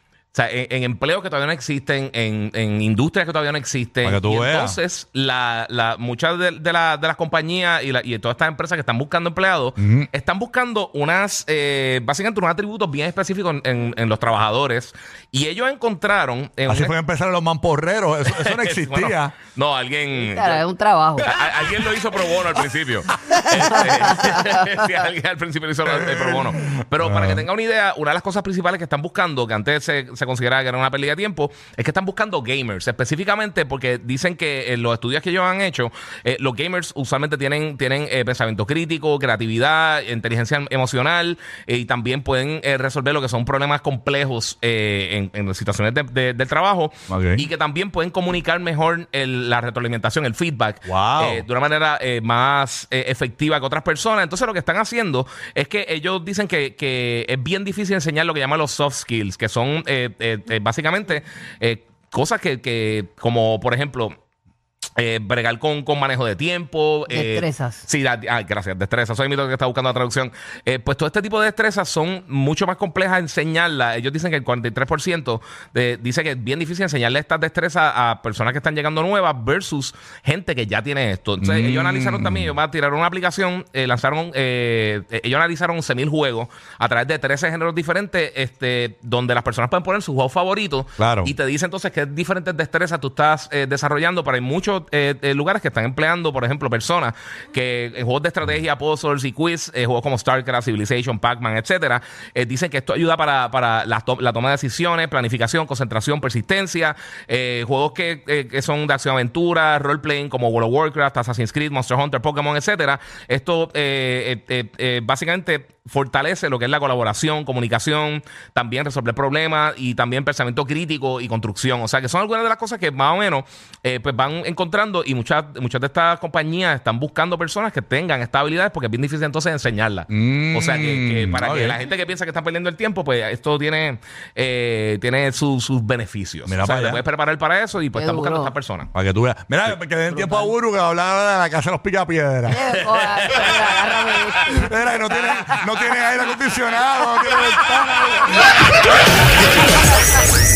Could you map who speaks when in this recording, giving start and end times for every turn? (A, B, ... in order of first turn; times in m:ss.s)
0:00.3-0:16.9 A
0:04.0-0:04.8 B
0:09.8-0:10.1 B
0:16.6-0:19.4 B
0:18.3-0:20.6 A
0:20.2-0:21.3 C
0:21.2-1:04.2 A
0:23.5-0:24.8 C
0:25.8-0:27.4 B
0:47.1-0:47.4 B
0:50.8-0:51.4 B
1:05.0-2:18.9 A
1:07.1-1:07.8 C
1:21.4-1:22.6 B
1:31.0-1:31.3 B
2:10.1-2:11.8 B
2:16.4-2:17.0 B
2:17.9-2:18.5 C
2:18.9-2:22.7 B
2:20.1-2:20.5 C
2:22.5-2:25.6 C
2:24.5-2:28.5 B
2:27.2-2:28.8 C